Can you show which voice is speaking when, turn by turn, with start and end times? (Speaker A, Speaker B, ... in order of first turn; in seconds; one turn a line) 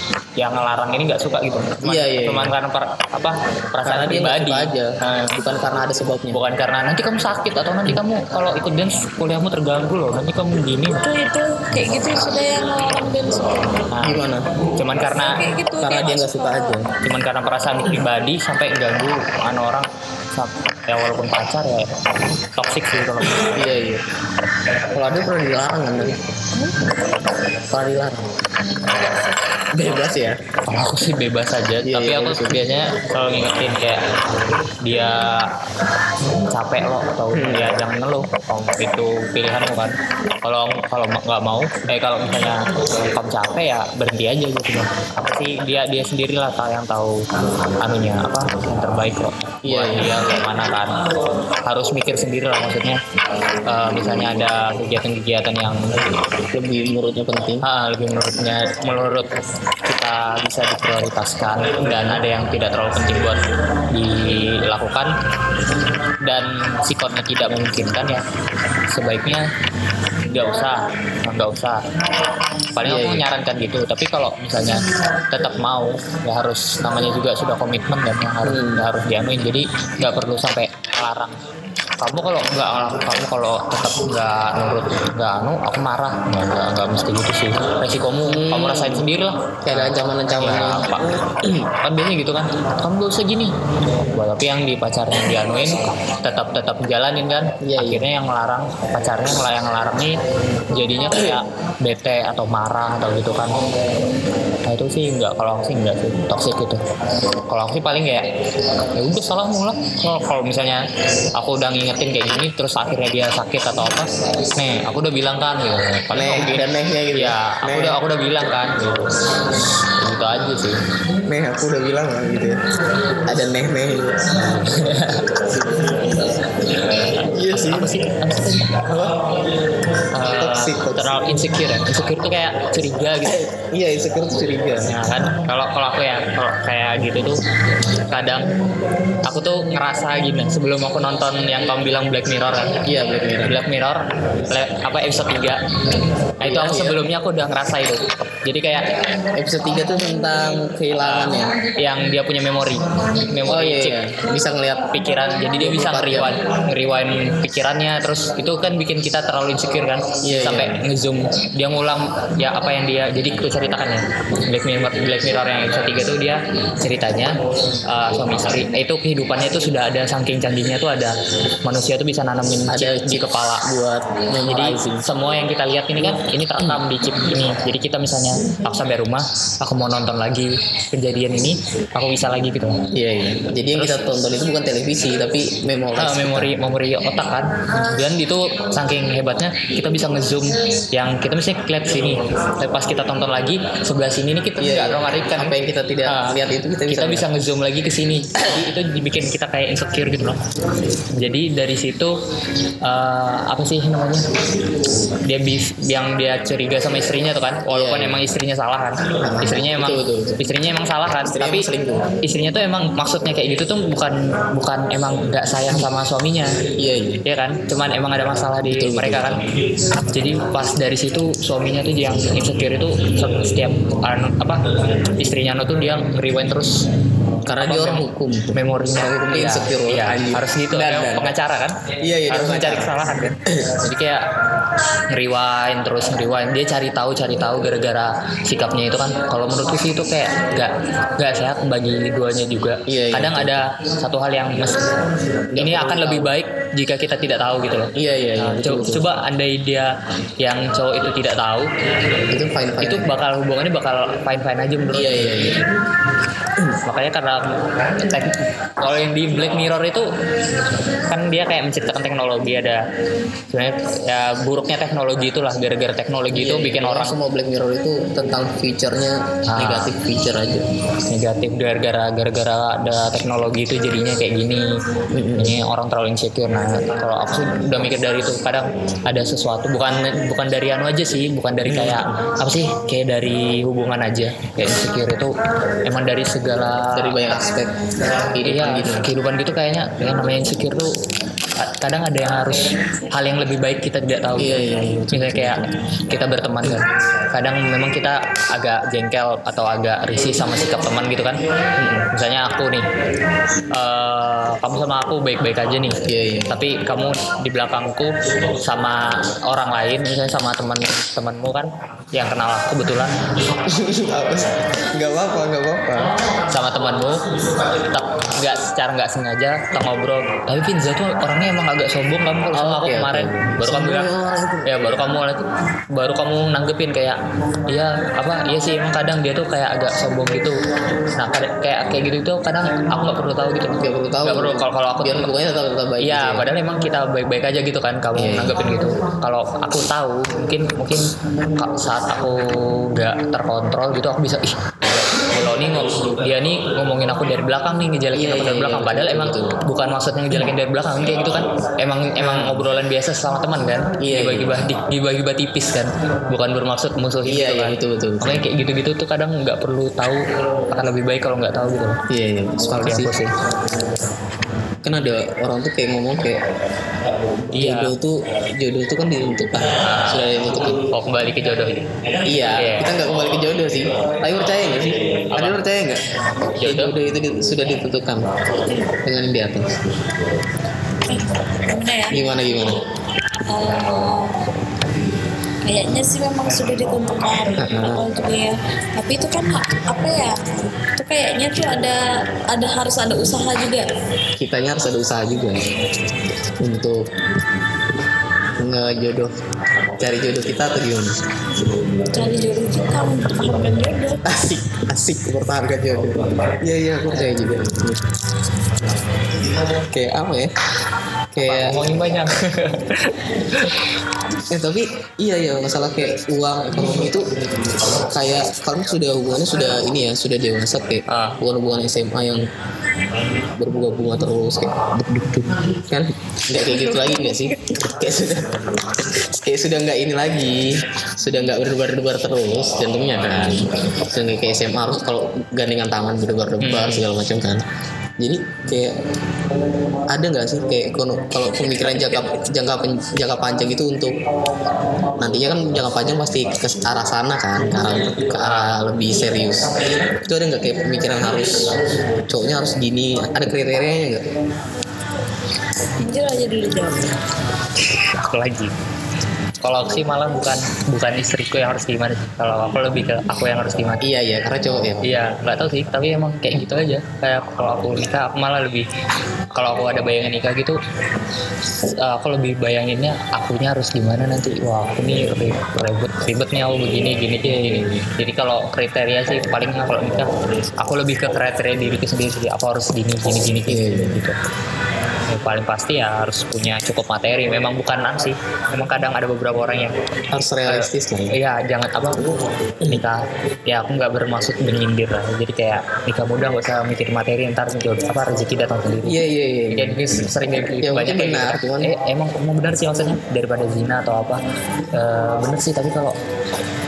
Speaker A: 0.4-5.4
Speaker B: 1.8-2.5
Speaker B: 3.8-6.4
Speaker A: 6.3-11.0
Speaker C: 11.0-13.7
Speaker A: 13.9-14.2
Speaker B: 14.0-14.5
Speaker A: 14.8-15.4
Speaker C: 15.2-16.8
Speaker B: 15.8-16.9
Speaker A: 17.0-21.9
Speaker A: 22.6-23.6
Speaker B: 23.5-24.0
Speaker B: 24.9-26.2
Speaker B: 27.7-28.3
Speaker B: 29.7-30.4
Speaker A: 30.7-34.0
Speaker B: 31.8-32.7
Speaker A: 34.8-35.5
Speaker A: 36.5-47.2
Speaker B: 37.3-37.8
Speaker A: 47.8-51.0
Speaker B: 49.6-50.2
Speaker A: 51.6-53.0
Speaker A: 53.6-56.0
Speaker B: 56.5-57.6
Speaker A: 57.6-59.3
Speaker A: 59.9-65.1
Speaker A: 66.2-68.2
Speaker A: 68.9-69.5
Speaker A: 70.3-71.8
Speaker C: 70.4-71.0
Speaker A: 72.7-81.4
Speaker B: 72.8-73.3
Speaker B: 78.4-78.8
Speaker A: 82.0-91.1
Speaker B: 88.2-89.1
Speaker B: 89.7-91.7
Speaker A: 91.8-93.5
Speaker A: 94.1-100.2
Speaker B: 97.6-98.0
Speaker A: 100.7-103.6
Speaker A: 104.7-106.8
Speaker A: 107.5-108.3
Speaker A: 108.9-110.8
Speaker A: 111.3-119.0
Speaker B: 116.1-118.0
Speaker A: 120.0-120.8
Speaker B: 121.3-122.6
Speaker B: 123.2-124.4
Speaker A: 124.4-125.5
Speaker B: 125.4-126.1
Speaker A: 126.8-128.9
Speaker B: 126.9-127.9
Speaker B: 128.8-129.2
Speaker A: 130.1-133.4
Speaker B: 130.3-131.1
Speaker B: 133.2-134.9
Speaker A: 134.9-137.4
Speaker A: 138.1-138.5
Speaker A: 139.2-142.8
Speaker B: 142.8-143.6
Speaker A: 143.4-145.6
Speaker A: 146.4-148.9
Speaker B: 146.4-147.0
Speaker B: 149.3-151.6
Speaker A: 151.0-154.0
Speaker B: 153.5-154.9
Speaker A: 154.9-173.8
Speaker B: 155.5-156.4
Speaker B: 160.2-160.8
Speaker B: 172.7-175.1
Speaker A: 174.4-182.8
Speaker B: 182.9-186.5
Speaker A: 183.7-184.1
Speaker A: 186.0-200.4
Speaker B: 194.6-197.3
Speaker A: 201.1-202.2
Speaker A: 202.8-204.3
Speaker A: 205.2-211.7
Speaker B: 207.7-208.2
Speaker B: 209.2-210.4
Speaker B: 211.2-212.1
Speaker A: 212.2-216.6
Speaker B: 216.8-217.2
Speaker A: 217.2-219.4
Speaker B: 218.7-219.4
Speaker A: 220.0-226.9
Speaker B: 227.5-231.3
Speaker A: 227.6-234.3
Speaker B: 232.0-232.9
Speaker B: 233.5-233.8
Speaker A: 235.1-244.9
Speaker B: 242.9-243.6
Speaker B: 245.5-246.3
Speaker A: 245.6-251.7
Speaker B: 247.9-249.1
Speaker B: 252.3-253.1
Speaker A: 252.8-255.5
Speaker B: 254.9-255.6
Speaker A: 256.9-260.1
Speaker A: 261.1-262.8
Speaker A: 263.5-267.2
Speaker B: 266.3-270.7
Speaker A: 269.5-269.9
Speaker A: 271.1-274.7
Speaker B: 275.1-275.6
Speaker A: 275.4-287.4
Speaker B: 281.7-282.1
Speaker B: 286.9-289.1
Speaker A: 288.4-290.9
Speaker A: 291.6-294.6
Speaker B: 294.4-295.7
Speaker A: 295.1-301.4
Speaker B: 301.8-302.1
Speaker A: 302.1-302.9
Speaker A: 303.7-313.1
Speaker B: 306.0-306.5
Speaker B: 313.6-316.1
Speaker A: 316.5-324.1
Speaker B: 322.5-325.1
Speaker A: 324.7-330.6
Speaker A: 331.1-335.3
Speaker B: 333.8-336.5
Speaker A: 336.0-362.0
Speaker B: 338.1-338.6
Speaker B: 348.1-349.6
Speaker B: 352.2-352.7
Speaker B: 354.0-354.6
Speaker B: 357.2-358.4
Speaker B: 362.1-363.1
Speaker A: 362.8-363.3
Speaker B: 364.8-366.4
Speaker A: 367.5-367.9
Speaker B: 367.5-370.8
Speaker A: 369.8-370.3
Speaker A: 370.9-371.8
Speaker B: 372.2-376.0
Speaker A: 372.5-372.9
Speaker A: 375.3-375.6
Speaker A: 376.6-376.9
Speaker B: 376.6-378.3
Speaker C: 378.7-378.9
Speaker B: 379.0-379.8
Speaker C: 381.1-382.2
Speaker B: 382.1-382.8
Speaker C: 383.5-384.3
Speaker C: 385.6-390.4
Speaker B: 387.6-388.0
Speaker C: 391.0-393.9
Speaker B: 394.4-395.6
Speaker B: 396.6-397.1
Speaker B: 398.6-399.3
Speaker B: 400.0-401.2
Speaker C: 402.1-404.2
Speaker B: 404.2-408.1
Speaker B: 409.9-410.5
Speaker B: 411.3-411.8
Speaker A: 411.4-413.8
Speaker B: 414.5-417.3
Speaker B: 417.9-422.4
Speaker A: 421.1-421.4
Speaker B: 423.6-437.6
Speaker C: 426.7-427.6
Speaker A: 436.6-437.1
Speaker B: 438.2-439.0
Speaker B: 440.1-444.2
Speaker B: 445.2-454.3
Speaker A: 448.4-448.8
Speaker C: 456.0-457.1
Speaker A: 458.2-458.7
Speaker A: 459.6-464.1
Speaker B: 464.0-465.1
Speaker A: 465.0-468.9
Speaker A: 469.5-470.8
Speaker A: 471.9-484.4
Speaker B: 477.4-478.1
Speaker B: 483.7-484.2
Speaker A: 485.3-489.9
Speaker B: 490.3-491.4
Speaker A: 490.7-492.3
Speaker A: 492.9-499.2
Speaker B: 499.1-501.9
Speaker A: 499.7-504.4
Speaker A: 504.9-506.2